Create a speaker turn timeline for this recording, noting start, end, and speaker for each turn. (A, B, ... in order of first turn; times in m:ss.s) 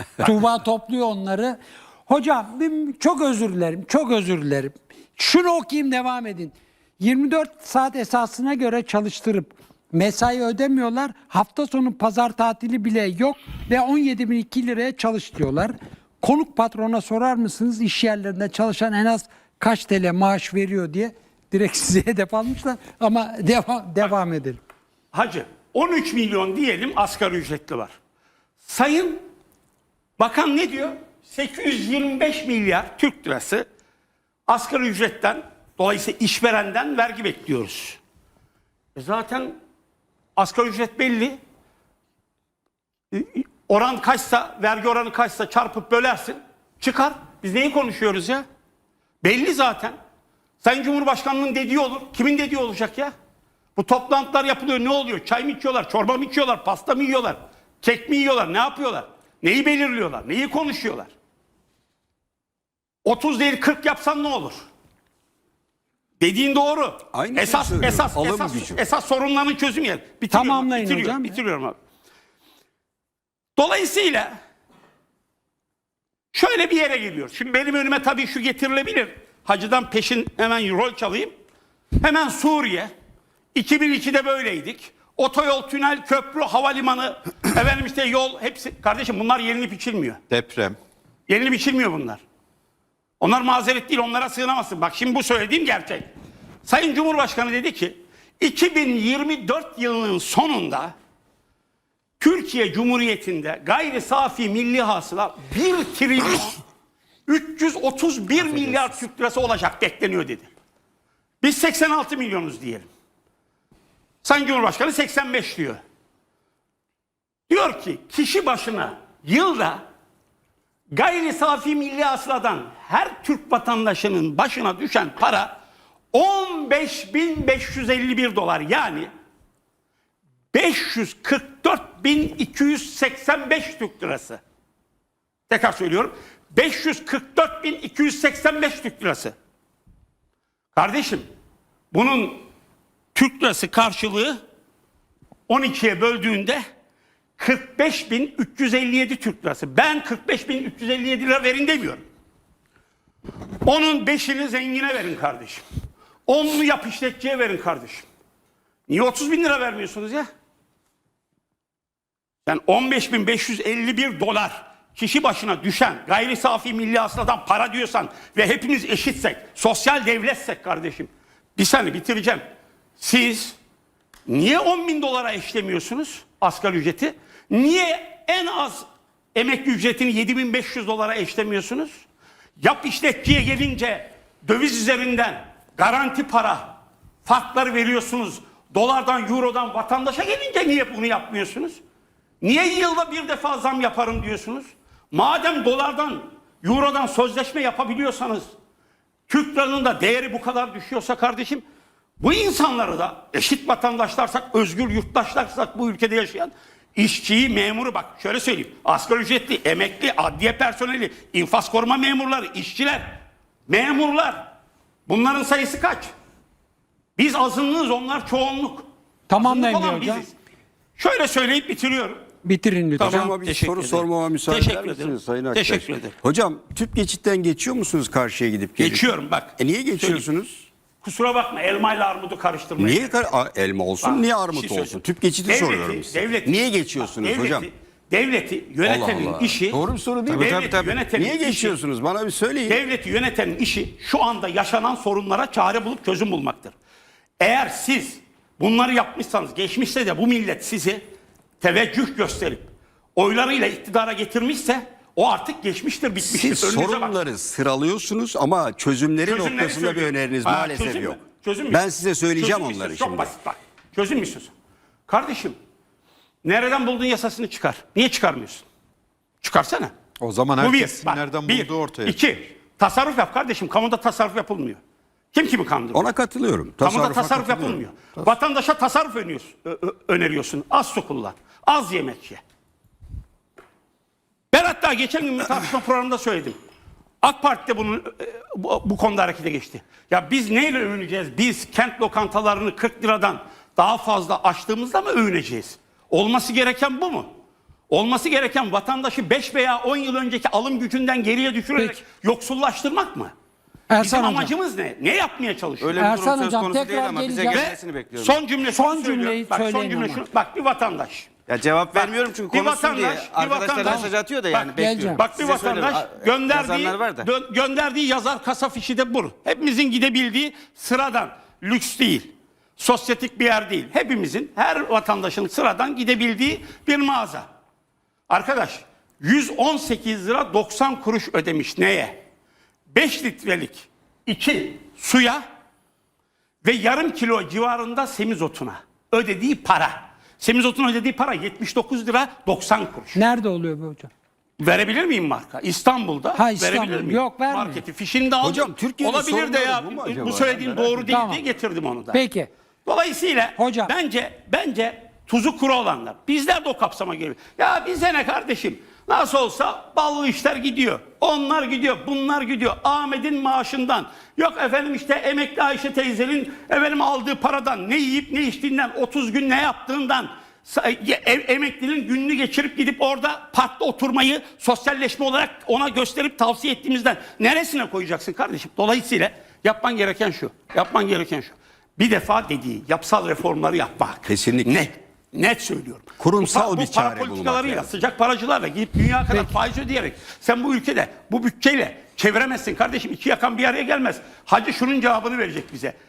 0:00.2-0:24.6 A
0:25.1-0:28.0 B
0:28.6-0:29.2 B
0:30.2-0:33.7 B
0:34.5-0:38.0 B
0:39.0-0:39.6 B
0:40.4-0:41.4 B
0:43.1-0:48.4 B
0:49.2-0:50.0 B
0:50.6-0:53.1 B
0:53.8-1:01.1 B
1:03.0-1:04.6 B
1:06.2-1:11.8 B
1:07.1-1:08.8 C
1:10.3-1:11.4 A
1:13.6-1:14.4 B
1:16.3-1:21.3 B
1:22.0-1:22.9 B
1:23.5-1:30.2 B
1:30.3-1:30.8 D
1:31.3-1:32.2 B
1:33.2-1:36.1 B
1:36.6-1:40.9 B
1:42.2-1:46.6 B
1:47.3-1:50.5 B
1:51.4-1:52.9 B
1:54.2-1:55.8 B
1:57.5-1:59.8 B
2:00.9-2:05.6 B
2:06.1-2:09.1 B
2:10.5-2:14.4 B
2:15.5-2:19.3 B
2:20.7-2:21.3 B
2:21.9-2:22.4 B
2:23.1-2:24.4 B
2:25.5-2:26.6 B
2:27.4-2:32.0 B
2:33.6-2:35.6 B
2:36.3-2:38.0 B
2:38.9-2:40.3 B
2:42.4-2:52.4 B
2:53.0-2:53.6 B
2:54.3-3:02.0 B
3:02.6-3:11.8 B
3:12.4-3:18.5 B
3:19.3-3:21.6 B
3:22.2-3:34.5 B
3:35.1-3:36.1 B
3:37.2-3:40.3 B
3:39.3-3:40.2 A
3:41.0-3:42.2 B
3:42.4-3:43.3 A
3:43.0-3:46.1 B
3:43.0-3:50.7 C
3:48.8-3:50.3 B
3:51.0-3:53.2 B
3:52.8-3:57.7 C
3:54.0-4:01.8 B
3:58.8-4:02.8 C
4:00.3-4:00.9 E
4:02.6-4:06.7 B
4:07.4-4:11.0 B
4:11.6-4:17.1 B
4:16.2-4:21.2 C
4:19.2-4:24.5 B
4:21.7-4:23.3 C
4:25.1-4:25.6 B
4:26.4-4:28.6 B
4:29.4-4:29.9 B
4:30.2-4:32.2 D
4:30.6-4:34.8 B
4:35.3-4:36.1 B
4:35.9-4:37.8 C
4:36.8-4:42.4 B
4:44.5-4:46.6 B
4:47.2-4:57.4 B
4:57.9-5:03.3 B
5:01.8-5:02.0 A
5:03.9-5:04.5 A
5:04.0-5:06.1 B
5:05.8-5:08.4 E
5:06.0-5:07.7 A
5:07.5-5:11.3 B
5:08.6-5:10.2 A
5:11.5-5:17.3 E
5:11.9-5:27.5 B
5:14.8-5:15.2 A
5:28.3-5:32.2 B
5:32.9-5:35.4 B
5:36.6-5:43.2 B
5:43.1-5:44.1 A
5:44.6-5:52.2 B
5:46.3-5:47.8 A
5:48.4-5:51.2 C
5:51.1-5:51.4 A
5:52.1-5:52.5 A
5:52.8-6:36.0 B
5:53.6-5:53.9 A
6:24.2-6:24.8 C
6:26.2-6:27.9 C